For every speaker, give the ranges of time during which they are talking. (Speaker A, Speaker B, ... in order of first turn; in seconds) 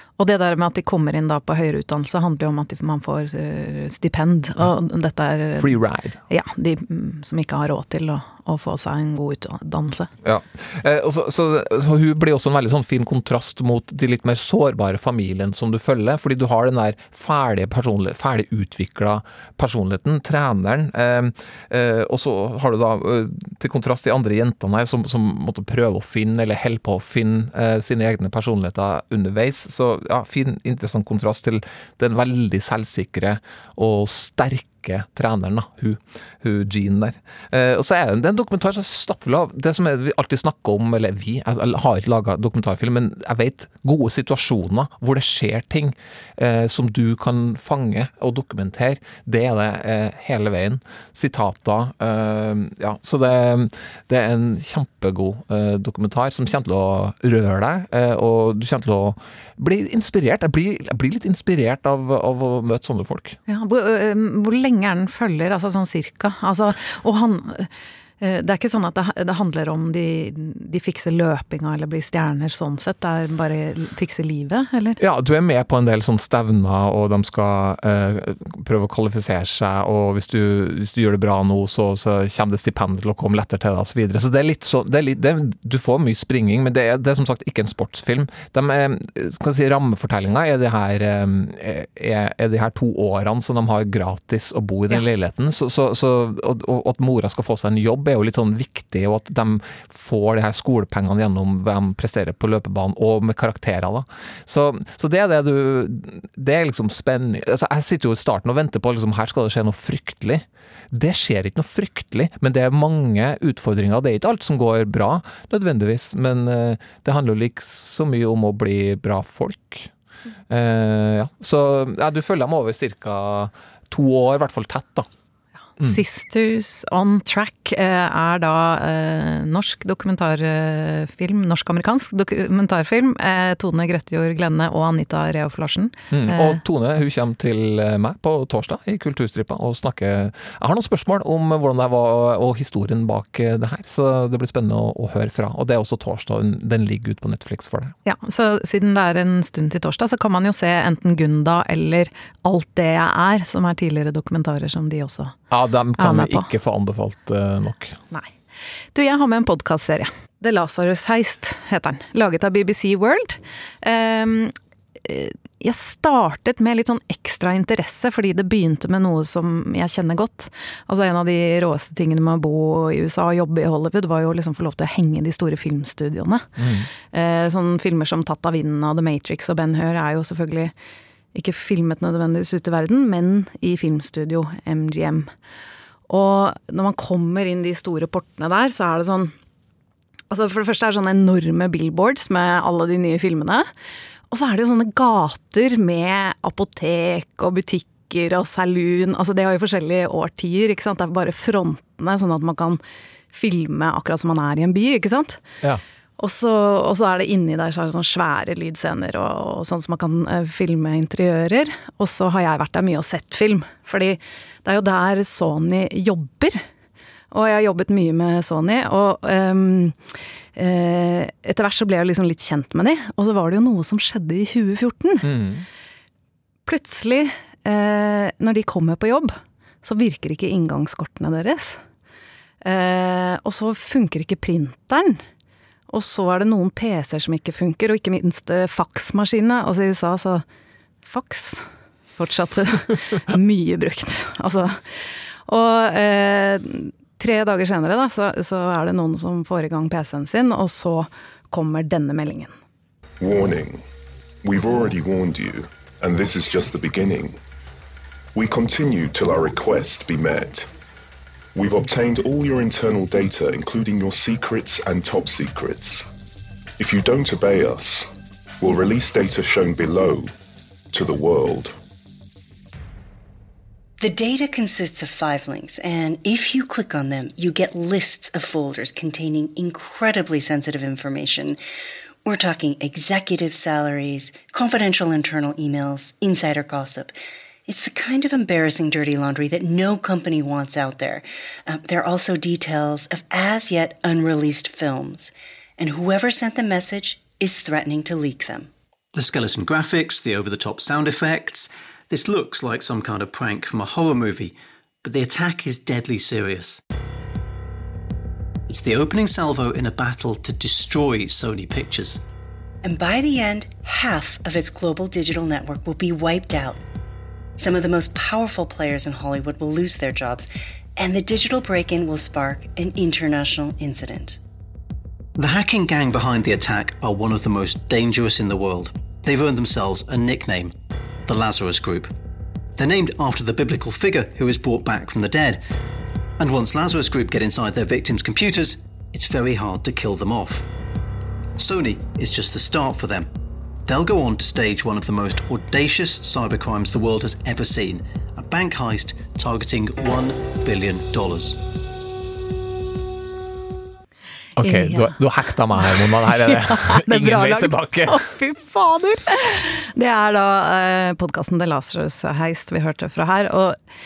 Speaker A: 0.2-5.7, 6.3-10.1, 63.5-67.7, 68.2-75.0, 125.8-136.6, 148.1-155.3, 156.0-156.5, 158.9-176.5, 177.1-180.7, 181.3-185.3, 186.1-189.3, 190.3-193.7, 194.3-202.8, 203.3-205.4, 206.2-216.6, 217.3-220.0, 220.6-225.3, 226.7-231.8, 232.6-235.2, 235.9-240.4, 241.1-244.8, 245.5-252.5, 354.6-355.2, 355.8-363.8
Speaker B: 5.6-6.2, 10.2-63.4, 75.0-119.9, 120.5-125.1, 136.1-147.9, 155.5-158.0, 176.6-176.9, 225.2-225.7, 354.6-358.2
Speaker C: 253.2-253.8, 254.4-257.4, 258.4-260.7, 261.6-266.1, 266.8-268.1, 268.6-270.3, 270.9-271.7
Speaker D: 274.0-281.6, 282.2-287.1, 287.7-298.7, 312.8-316.8, 317.6-324.4
Speaker E: 299.1-306.8, 308.7-312.2, 325.4-330.7, 331.3-332.1, 332.8-335.6, 336.4-340.7, 341.6-343.3, 343.9-351.6